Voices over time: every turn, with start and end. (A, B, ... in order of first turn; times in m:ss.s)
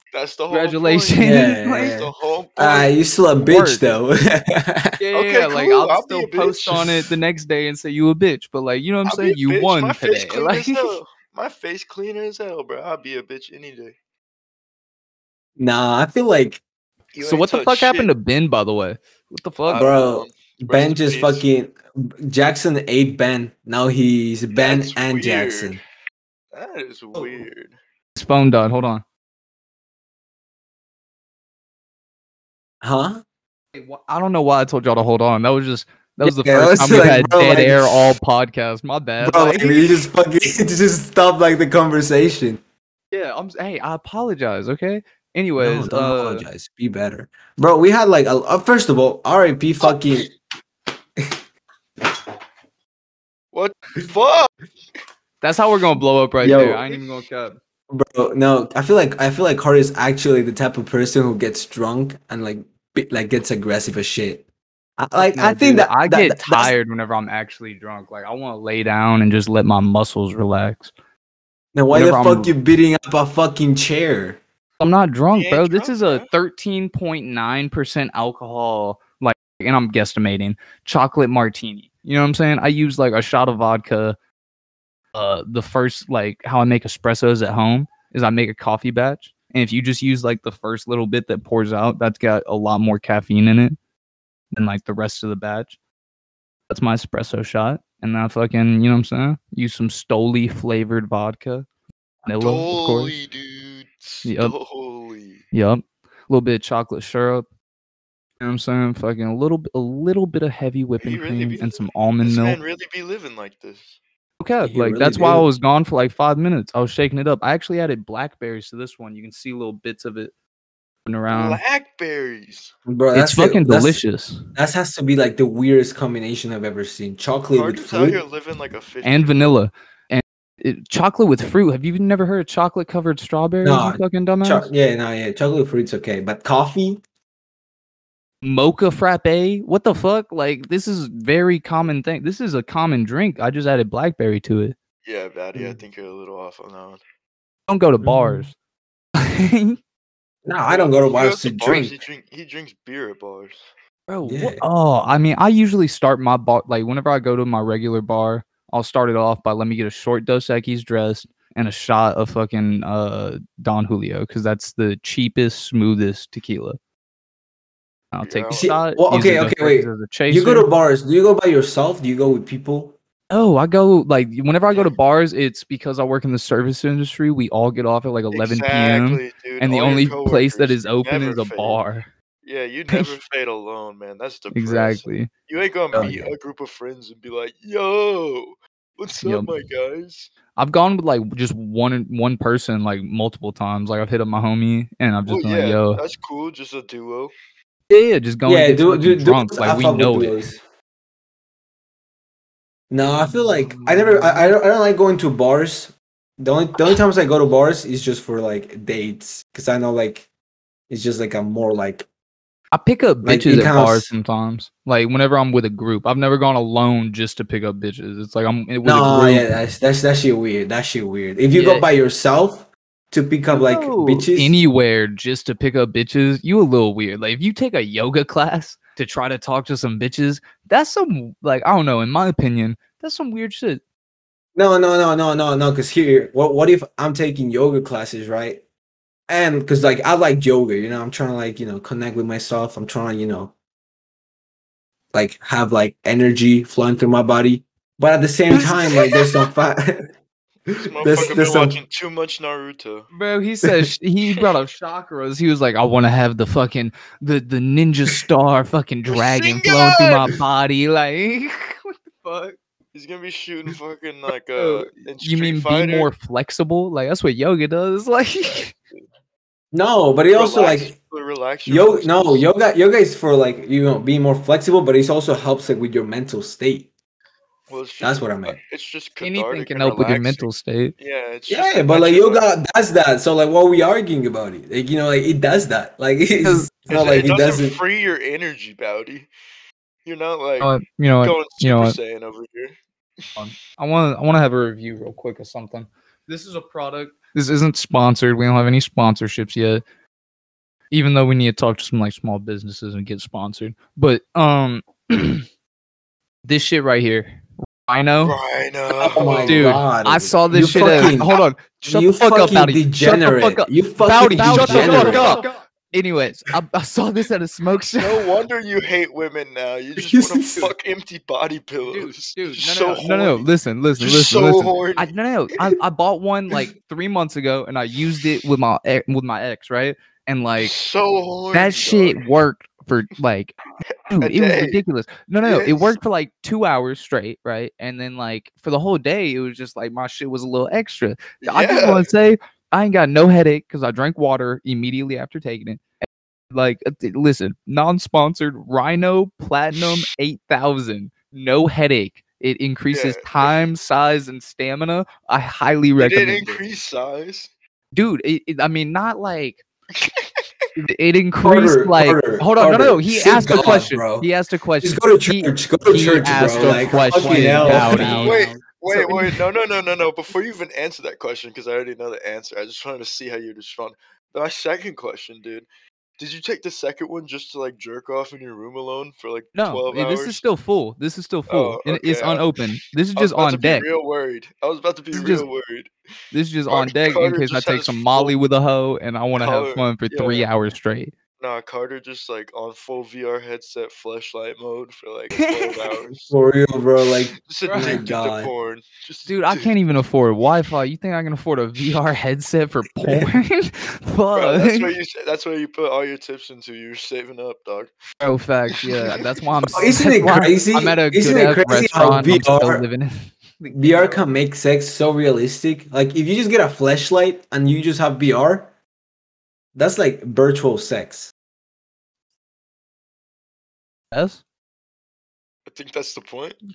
0:00.1-0:02.9 A
0:00.5-0:02.0 B
0:01.2-0:05.0 C
0:03.4-0:03.9 B
0:05.0-0:11.0 B
0:05.1-0:06.9 A
0:09.0-0:13.9 A
0:15.6-0:16.6 C
0:17.1-0:18.1 A
0:17.2-0:19.9 B
0:19.6-0:21.5 A
0:19.7-0:25.8 C
0:24.5-0:25.8 A
0:26.5-0:27.8 A
0:27.1-0:27.4 B
0:28.1-0:29.0 B
0:32.8-0:33.2 C
0:33.7-0:40.0 B
0:36.2-0:38.1 C
0:39.2-0:42.6 C
0:43.1-0:46.4 B
0:45.6-0:50.3 C
0:53.5-0:54.5 A
0:55.4-0:57.6 B
0:56.4-0:56.8 C
0:57.9-1:04.4 C
1:05.0-1:06.7 C
1:05.2-1:10.9 B
1:11.7-1:14.4 C
1:11.9-1:12.5 B
1:14.8-1:24.2 B
1:15.3-1:16.3 A
1:25.1-1:33.8 B
1:34.5-1:35.8 B
1:36.7-1:41.6 B
1:42.2-1:43.2 B
1:42.2-1:45.4 A
1:44.2-1:44.5 B
1:45.5-1:47.4 B
1:48.4-1:52.6 B
1:51.0-1:54.0 A
1:54.4-2:00.3 B
1:54.6-1:55.5 C
2:01.0-2:01.6 B
2:01.3-2:02.7 A
2:02.9-2:04.0 C
2:03.1-2:04.4 B
2:04.5-2:08.2 C
2:07.5-2:09.5 A
2:09.0-2:14.7 B
2:13.6-2:17.0 C
2:18.4-2:24.8 B
2:25.0-2:27.0 A
2:25.5-2:25.8 C
2:27.7-2:28.5 B
2:28.0-2:28.4 C
2:29.2-2:29.8 B
2:30.4-2:31.9 C
2:30.6-2:33.6 A
2:34.1-2:46.8 B
2:34.2-2:34.6 C
2:48.1-2:50.7 B
2:48.2-2:48.7 A
2:48.5-2:53.0 C
2:53.3-3:02.1 B
2:58.3-3:01.8 A
3:02.4-3:10.3 A
3:02.9-3:03.2 B
3:04.5-3:05.3 B
3:05.9-3:06.3 B
3:09.2-3:09.5 B
3:10.6-3:16.0 B
3:15.3-3:17.3 A
3:17.9-3:20.4 B
3:18.4-3:20.6 C
3:22.9-3:30.3 C
3:23.2-3:24.5 B
3:30.9-3:32.0 C
3:32.7-3:39.5 B
3:33.2-3:34.1 C
3:38.8-3:44.5 C
3:41.5-3:41.9 B
3:43.5-3:53.8 B
3:54.6-3:58.6 C
3:59.3-4:03.5 C
4:05.1-4:10.1 C
4:08.5-4:09.2 B
4:10.7-4:11.8 C
4:10.8-4:13.1 A
4:13.1-4:22.6 B
4:19.1-4:20.2 A
4:22.9-4:26.1 A
4:24.6-4:28.7 B
4:29.7-4:30.9 C
4:30.3-4:32.4 A
4:31.6-4:36.9 C
4:37.7-4:42.4 A
4:38.0-4:38.6 C
4:39.2-4:40.9 B
4:41.5-4:47.8 C
4:46.4-4:46.7 B
4:46.9-4:49.3 A
4:50.0-4:53.4 A
4:50.6-4:52.0 B
4:53.4-4:59.8 B
5:00.9-5:05.4 B
5:06.4-5:08.4 B
5:08.2-5:09.8 A
5:09.0-5:15.4 C
5:09.4-5:18.2 B
5:10.6-5:11.4 A
5:14.5-5:15.6 A
5:18.0-5:25.1 A
5:20.0-5:20.7 C
5:21.9-5:30.7 B
5:30.6-5:32.2 A
5:31.5-5:33.6 B
5:34.1-5:56.6 B
5:34.1-5:34.8 A
5:35.4-5:36.0 A
5:41.4-5:42.1 A
5:52.9-5:53.7 A
5:56.0-5:57.5 A
5:57.9-5:59.6 B
5:59.9-6:00.5 A
6:00.8-6:09.4 B
6:01.4-6:04.3 C
6:04.8-6:08.6 C
6:06.3-6:15.7 A
6:16.2-6:20.4 A
6:19.5-6:23.9 B
6:21.5-6:22.6 A
6:23.2-6:25.9 A
6:25.1-6:25.4 B
6:26.3-6:31.1 B
6:26.7-6:28.4 A
6:29.4-6:30.5 A
6:31.4-6:36.3 A
6:35.4-6:35.9 B
6:36.3-6:38.5 C
6:37.4-6:39.7 A
6:37.6-6:38.0 B
6:39.3-6:44.9 B
6:44.3-6:47.9 A
6:48.2-6:54.2 B
6:49.0-6:49.8 A
6:49.7-6:52.8 C
6:53.7-6:58.7 C
6:59.7-7:01.3 C
7:04.1-7:04.4 B
7:05.7-7:06.6 A